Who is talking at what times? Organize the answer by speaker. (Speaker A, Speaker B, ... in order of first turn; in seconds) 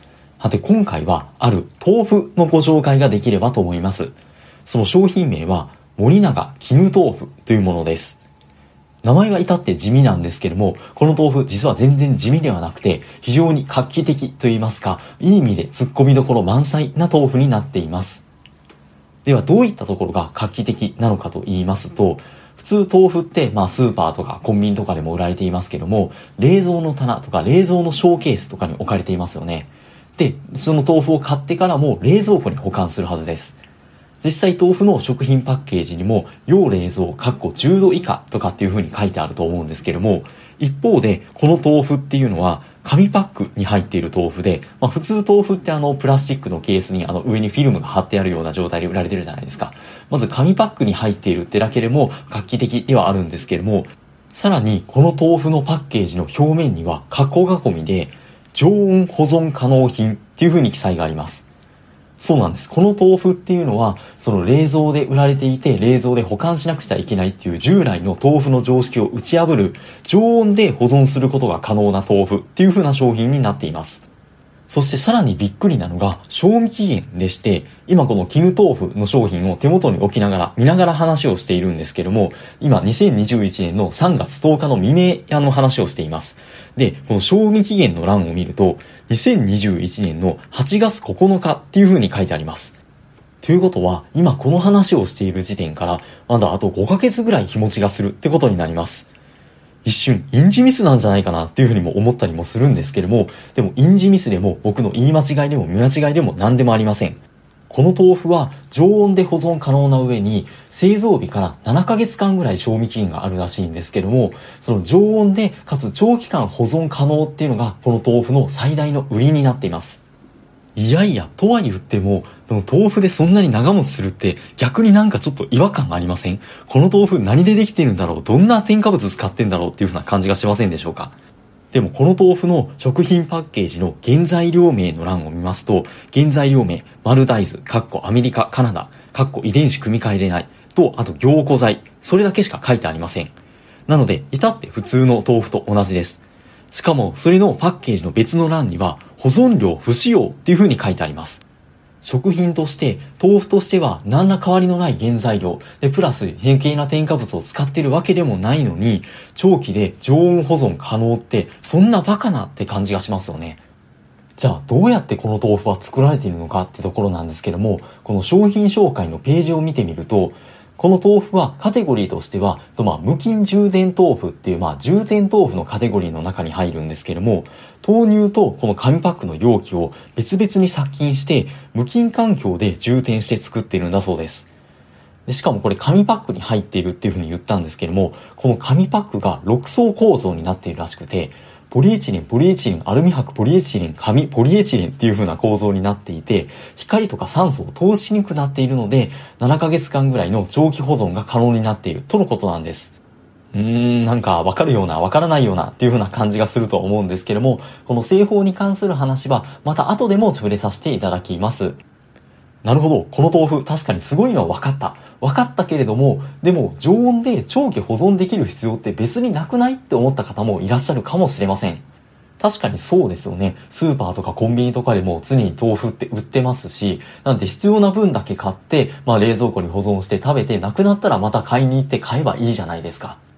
Speaker A: 0.4-4.1, 4.7-8.2, 9.0-18.2, 19.2-33.6, 34.2-61.5, 62.2-74.1, 74.7-92.8, 93.4-99.1, 99.8-107.2, 107.7-120.0, 120.8-131.1, 131.7-143.3, 143.9-151.4, 152.0-163.6, 164.4-184.5, 185.3-202.9, 203.5-211.8, 212.6-221.8, 222.4-233.2